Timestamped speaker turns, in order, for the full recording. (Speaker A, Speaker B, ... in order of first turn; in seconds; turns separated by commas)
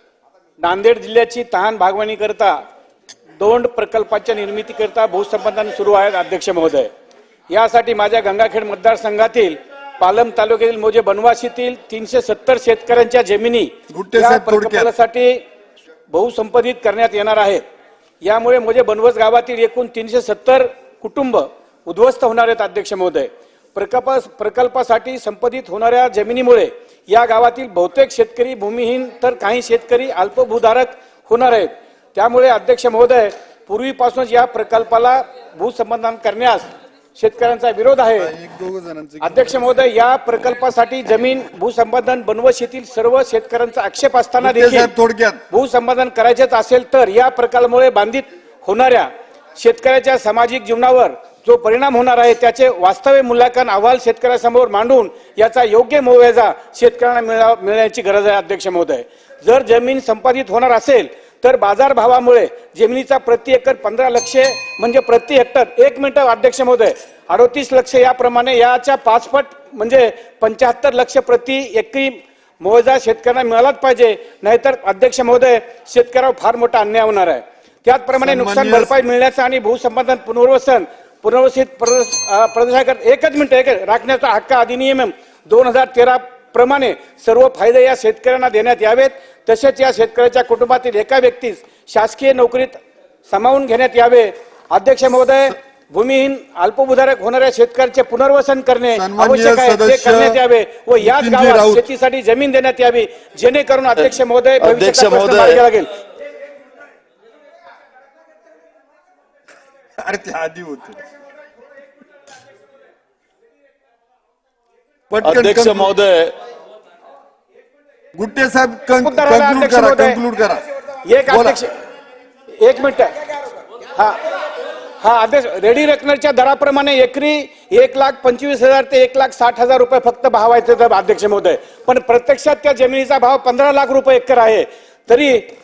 Speaker A: 0.6-2.6, Speaker A: 3.4-6.9, Speaker A: 7.5-15.4, Speaker B: 13.9-14.9, Speaker A: 16.1-17.6, Speaker A: 18.2-38.3, Speaker B: 38.2-39.7, Speaker A: 39.2-44.9, Speaker B: 44.4-45.4, Speaker A: 45.5-105.9, Speaker B: 78.2-79.0, Speaker B: 98.9-100.4, Speaker B: 101.0-101.8, Speaker C: 104.0-105.6, Speaker B: 110.0-111.0, Speaker B: 115.1-115.9, Speaker C: 115.2-116.3, Speaker B: 118.2-120.6, Speaker A: 119.0-120.2, Speaker A: 121.0-121.7, Speaker B: 121.3-121.6, Speaker A: 122.6-124.3, Speaker A: 125.0-135.5